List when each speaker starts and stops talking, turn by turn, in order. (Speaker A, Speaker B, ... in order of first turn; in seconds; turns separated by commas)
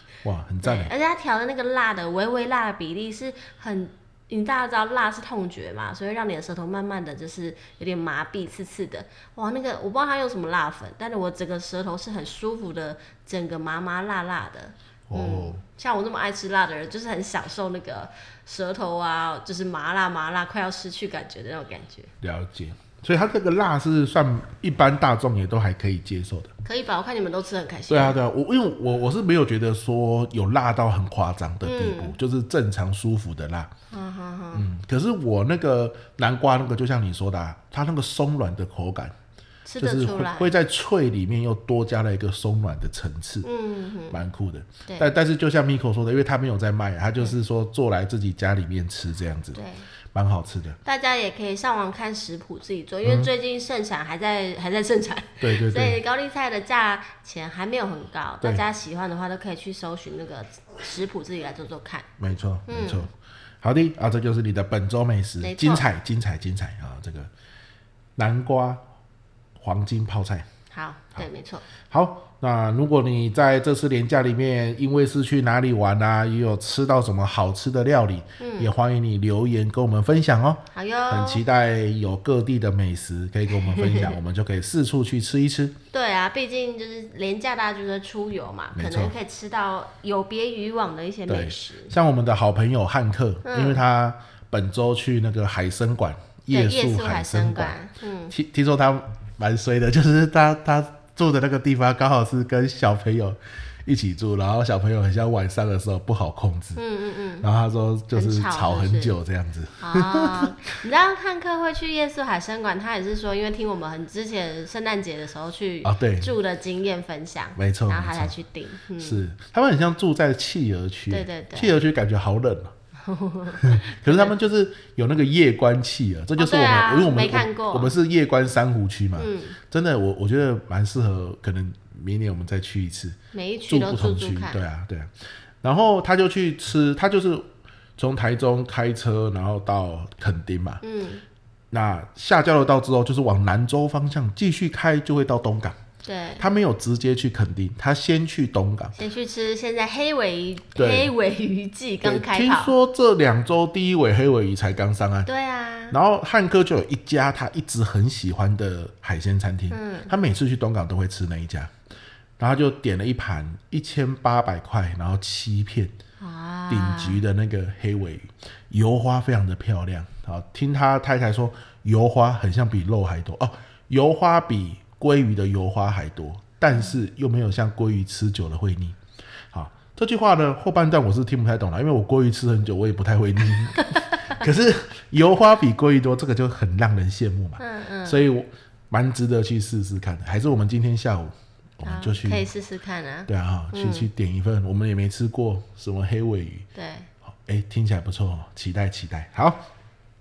Speaker A: 0.2-0.9, Speaker B: 0.6-22.1, Speaker A: 15.1-15.6, Speaker A: 22.2-26.5, Speaker B: 26.6-28.2, Speaker A: 27.9-33.7, Speaker B: 31.6-32.1, Speaker B: 33.9-34.6, Speaker A: 34.5-39.1, Speaker B: 39.6-40.5, Speaker A: 39.8-43.5, Speaker B: 43.4-44.2, Speaker A: 44.1-49.6, Speaker B: 49.5-49.9, Speaker A: 50.1-50.8, Speaker B: 50.9-62.1, Speaker A: 53.0-53.3, Speaker A: 55.4-56.0, Speaker A: 62.2-63.1, Speaker B: 62.7-63.1, Speaker A: 63.6-67.3, Speaker B: 65.4-65.8, Speaker A: 68.2-68.8, Speaker A: 69.6-70.5, Speaker B: 70.7-71.6, Speaker A: 71.9-85.8, Speaker B: 78.4-78.7, Speaker B: 80.7-81.4, Speaker B: 83.7-84.1, Speaker B: 85.9-91.9, Speaker A: 88.8-89.1, Speaker A: 91.3-97.8, Speaker B: 93.4-93.8, Speaker B: 96.5-98.3, Speaker A: 98.3-106.8, Speaker B: 106.8-107.5, Speaker A: 107.4-110.7, Speaker B: 108.1-109.1, Speaker B: 109.8-119.2, Speaker A: 115.8-116.3, Speaker A: 117.6-118.3, Speaker A: 119.0-122.8, Speaker B: 121.1-121.7, Speaker B: 123.0-124.3, Speaker A: 123.6-133.2, Speaker B: 126.4-127.9, Speaker B: 129.2-129.6, Speaker B: 133.3-134.6, Speaker A: 133.7-140.8, Speaker B: 140.8-141.2, Speaker A: 141.7-145.8, Speaker B: 146.0-146.4, Speaker A: 146.4-148.9, Speaker B: 148.9-152.7, Speaker A: 150.8-151.1, Speaker A: 152.0-155.3, Speaker B: 155.3-155.9, Speaker A: 155.9-161.7, Speaker B: 159.7-160.1, Speaker A: 162.4-165.9, Speaker B: 166.2-167.2, Speaker A: 166.7-179.0, Speaker A: 179.5-192.4, Speaker B: 183.8-184.1, Speaker B: 187.6-188.2, Speaker B: 191.8-194.1, Speaker A: 193.3-196.7, Speaker B: 196.8-197.1, Speaker A: 197.3-199.6